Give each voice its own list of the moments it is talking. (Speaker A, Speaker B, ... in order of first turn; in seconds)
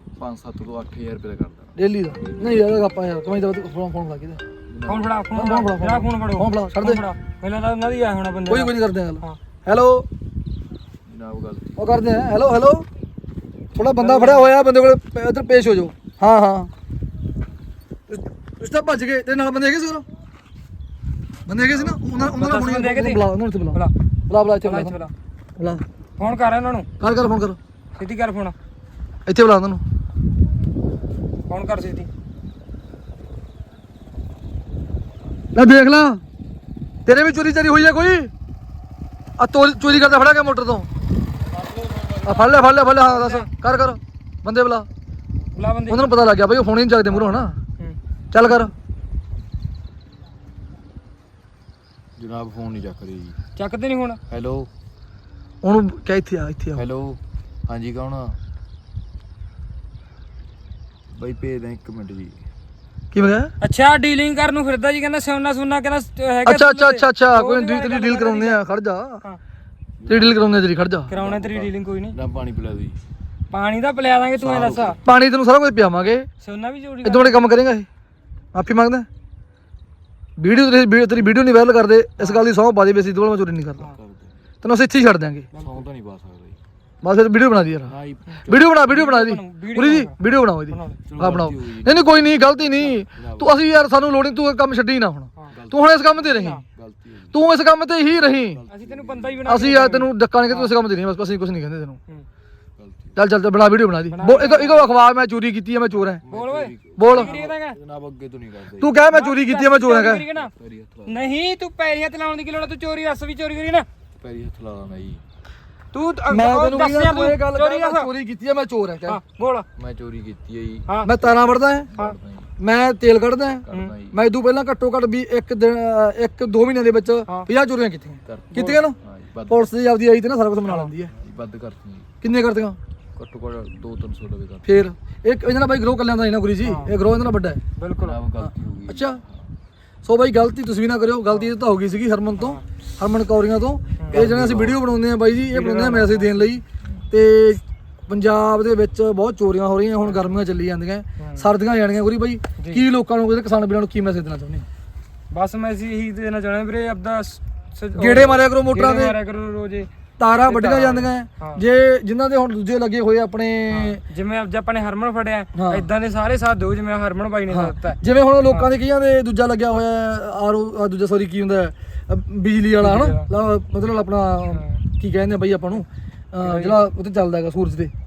Speaker A: 0.2-1.7, 4.7-5.2, 11.1-11.8, 21.7-22.4, 52.2-53.4, 54.3-54.7, 56.7-58.4, 61.1-62.4, 70.0-70.6, 71.1-73.0, 74.4-75.1, 83.9-84.4, 85.6-86.6, 87.8-88.7, 91.0-93.6, 95.5-97.4, 98.5-99.8, 102.8-103.2, 105.9-108.9, 110.3-111.2, 114.2-115.2, 119.8-120.9, 121.9-122.5, 123.7-124.2, 128.2-129.7, 131.1-132.1, 133.1-134.7, 138.0-139.5, 144.1-144.8
Speaker B: 1.7-4.4, 5.3-7.0, 8.5-10.1, 11.8-12.8, 13.7-16.7, 18.1-20.0, 21.4-25.0, 25.6-25.8, 27.0-27.6, 29.2-29.8, 35.5-36.2, 37.0-38.3, 39.4-40.9, 42.2-44.9, 45.9-47.5, 48.3-48.7, 55.6-56.8, 63.1-63.5, 66.4-69.2, 70.1-71.1, 75.0-76.3, 77.0-77.9, 78.5-79.1, 80.4-83.9, 84.6-85.5, 87.0-87.9, 88.5-96.6, 97.3-98.6, 99.5-102.0, 103.2-106.2, 107.0-107.3, 108.8-110.2, 116.3-119.2, 121.0-121.9, 122.6-131.1, 132.2-132.8, 134.6-137.6, 138.9-139.2, 140.0-154.7, 157.9-159.2, 160.2-164.0, 165.5-165.9, 167.5-177.9
Speaker C: 4.8-9.4, 13.9-14.5, 22.2-23.9, 24.6-25.1, 26.2-26.9, 27.9-28.5, 31.5-32.1, 41.5-43.5, 45.5-46.1, 47.1-48.0, 53.5-54.2, 63.6-68.6, 71.1-72.2, 73.5-75.0, 76.4-77.5, 82.2-82.4, 85.5-85.8, 88.9-90.1, 90.7-91.0, 98.7-100.7, 104.1-104.9, 106.3-107.8, 109.1-110.5, 111.0-113.9, 115.9-118.1, 119.0-119.6, 128.5-128.8, 136.6-136.9, 137.8-138.2, 145.5-146.5, 151.2-151.5, 152.6-152.8, 155.3-159.9, 160.4-161.6, 163.7-168.7, 172.8-173.3, 174.5-174.8, 176.4-176.8